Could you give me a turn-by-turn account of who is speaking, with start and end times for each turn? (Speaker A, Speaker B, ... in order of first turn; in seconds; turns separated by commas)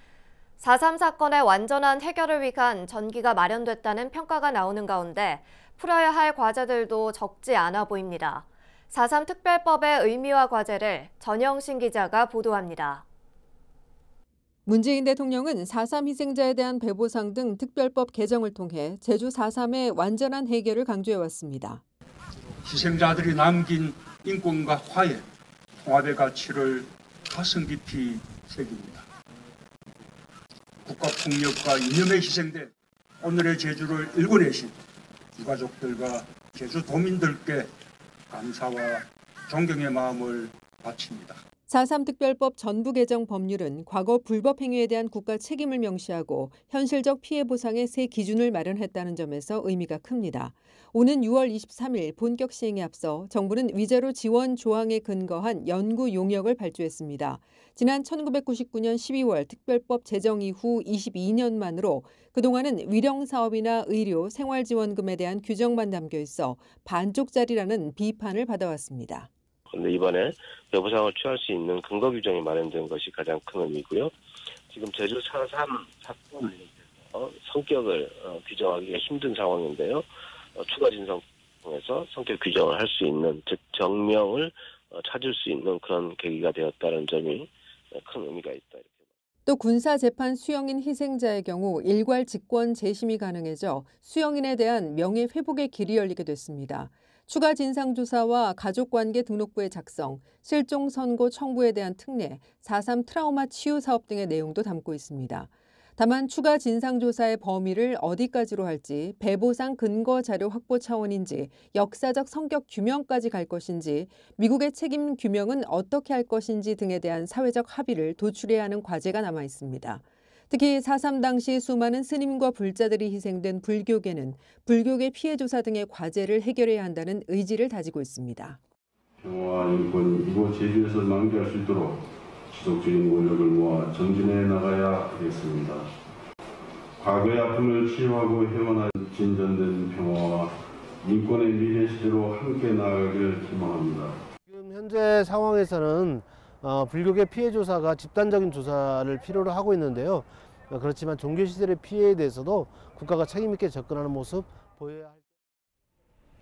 Speaker A: 0.6-13.0, Speaker B: 14.7-21.8, Speaker C: 22.6-25.2, Speaker C: 25.9-29.0, Speaker C: 30.9-32.7, Speaker C: 33.2-34.7, Speaker C: 35.4-37.7, Speaker C: 38.3-41.4, Speaker B: 41.7-69.3, Speaker D: 69.7-74.1, Speaker D: 74.7-88.9, Speaker B: 89.5-128.6, Speaker E: 129.2-135.9, Speaker E: 137.0-144.2, Speaker F: 144.5-155.2